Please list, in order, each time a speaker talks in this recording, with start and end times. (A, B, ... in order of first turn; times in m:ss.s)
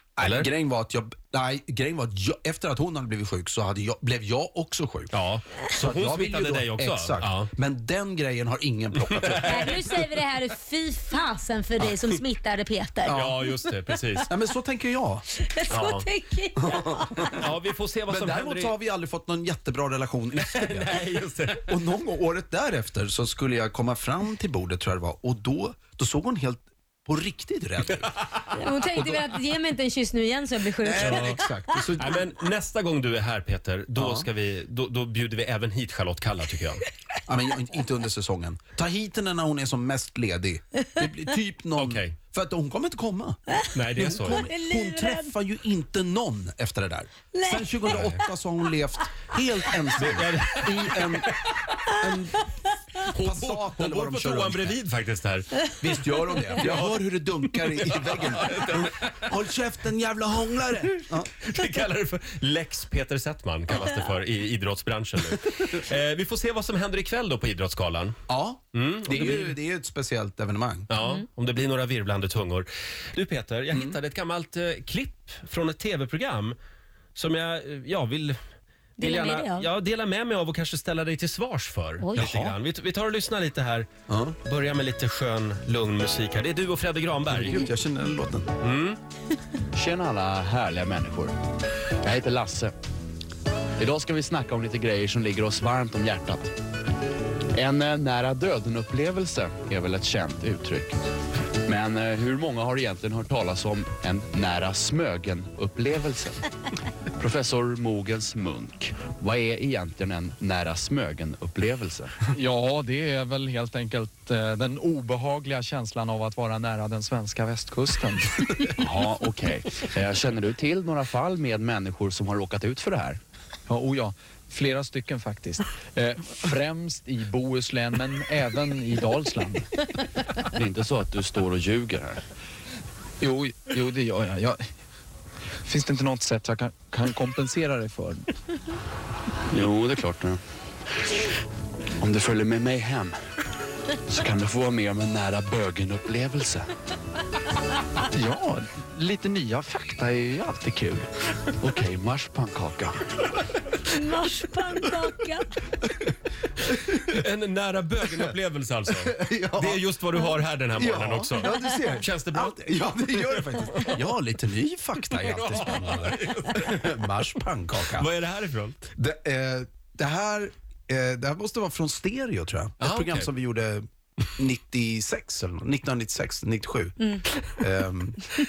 0:00.2-0:05.1 A
0:00.2-0:00.5 B
0:05.1-0:07.5 B
0:05.7-0:09.8 A
0:09.2-0:09.8 B
0:09.4-0:13.3 C
0:13.0-0:13.4 A
0:13.1-0:14.3 B
0:14.3-0:15.2 A
0:15.4-0:17.3 C
0:15.7-0:16.0 B
0:16.6-0:17.4 A
0:17.3-0:18.7 B
0:18.1-0:21.0 A
0:20.4-0:21.7 B
0:21.6-0:28.1 A
0:28.5-0:31.4 C
0:30.8-0:32.2 A
0:30.9-0:36.8 B
0:34.0-0:34.3 A
0:37.3-0:43.4 A
0:41.8-0:42.1 B
0:43.5-0:45.3 C
0:43.7-0:44.5 B
0:43.9-0:52.5 A
0:47.3-0:48.2 C
0:47.9-0:48.2 B
0:50.0-0:51.0 B
0:53.0-0:55.7 B
0:53.1-0:54.8 A
0:55.8-1:01.3 A
0:56.6-0:57.0 B
0:57.8-0:58.8 B
1:01.4-1:08.2 B
1:08.3-1:10.9 A
1:08.7-1:09.6 B
1:10.9-1:16.6 B
1:13.7-1:14.0 A
1:17.1-1:18.4 B
1:19.0-1:19.7 C
1:19.0-1:23.9 B
1:22.0-1:22.4 C
1:24.1-1:24.4 A
1:24.4-1:27.7 B
1:27.3-1:28.5 A
1:28.6-1:29.0 B
1:29.7-1:31.3 D
1:32.0-1:32.7 D
1:33.8-1:36.5 D
1:37.5-1:41.0 D
1:41.6-1:46.4 D
1:47.2-1:52.2 D
1:52.3-1:58.6 E
1:58.8-2:03.2 D
2:03.7-2:09.6 E
2:10.6-2:12.2 D
2:13.3-2:14.6 E
2:15.6-2:18.2 E
2:19.5-2:20.4 D
2:22.0-2:23.2 D
2:24.1-2:26.7 D
2:28.1-2:33.0 D
2:33.9-2:35.5 C
2:36.9-2:44.0 B
2:39.2-2:39.8 A
2:40.8-2:48.1 A
2:45.1-2:47.0 B
2:48.0-2:48.8 B
2:49.0-2:57.0 A
2:52.8-2:53.3 B
2:57.5-2:58.2 A